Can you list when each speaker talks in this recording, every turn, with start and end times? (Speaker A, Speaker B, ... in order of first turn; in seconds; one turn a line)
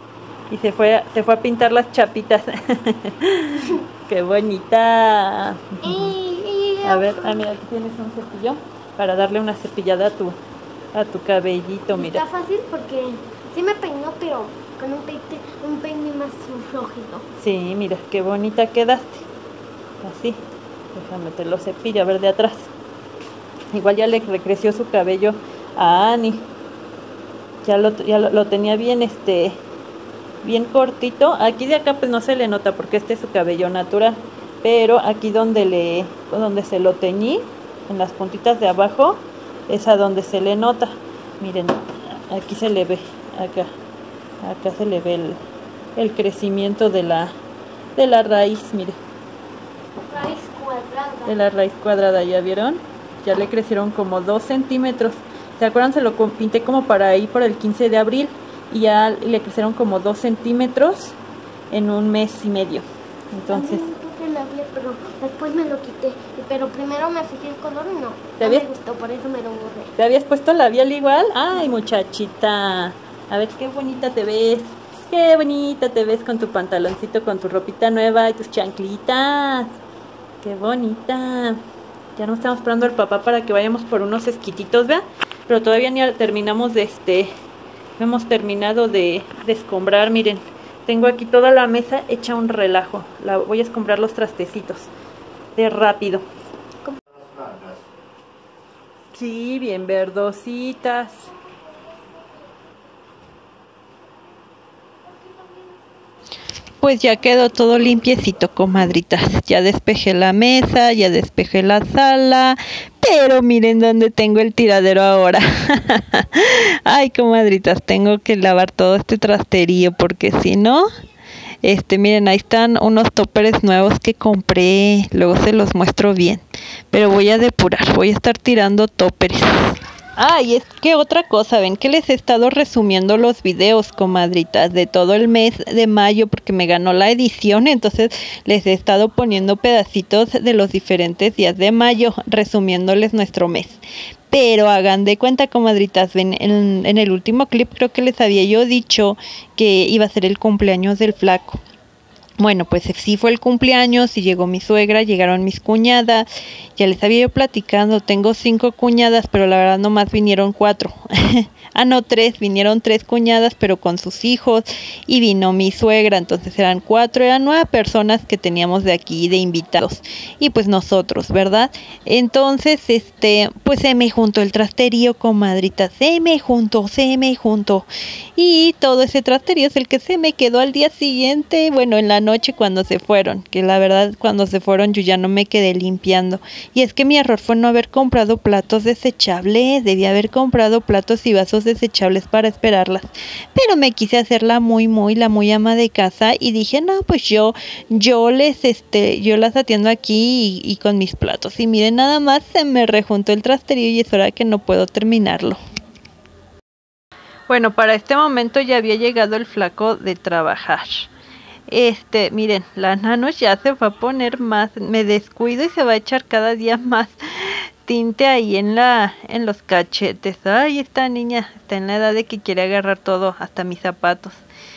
Speaker A: 0.5-6.2
Speaker B: 5.8-7.5
Speaker A: 6.8-10.4
Speaker A: 10.9-12.2
Speaker B: 11.9-17.3
Speaker A: 17.4-19.2
Speaker A: 20.0-20.4
Speaker A: 20.9-22.7
Speaker A: 23.7-26.5
Speaker A: 27.6-29.6
Speaker A: 30.4-43.7
Speaker A: 44.4-45.4
Speaker A: 46.0-47.3
Speaker A: 48.0-49.0
Speaker B: 50.1-51.3
Speaker A: 51.2-61.2
Speaker A: 61.7-63.8
Speaker B: 63.5-70.0
Speaker A: 68.4-68.7
Speaker A: 70.0-79.7
Speaker A: 80.4-81.6
Speaker A: 82.2-87.3
Speaker A: 88.0-94.9
Speaker A: 95.6-96.2
Speaker A: 99.1-101.3
Speaker C: 106.8-120.9
Speaker C: 121.6-151.6
Speaker C: 152.4-205.6
Speaker C: 207.5-211.1
Speaker C: 211.7-224.4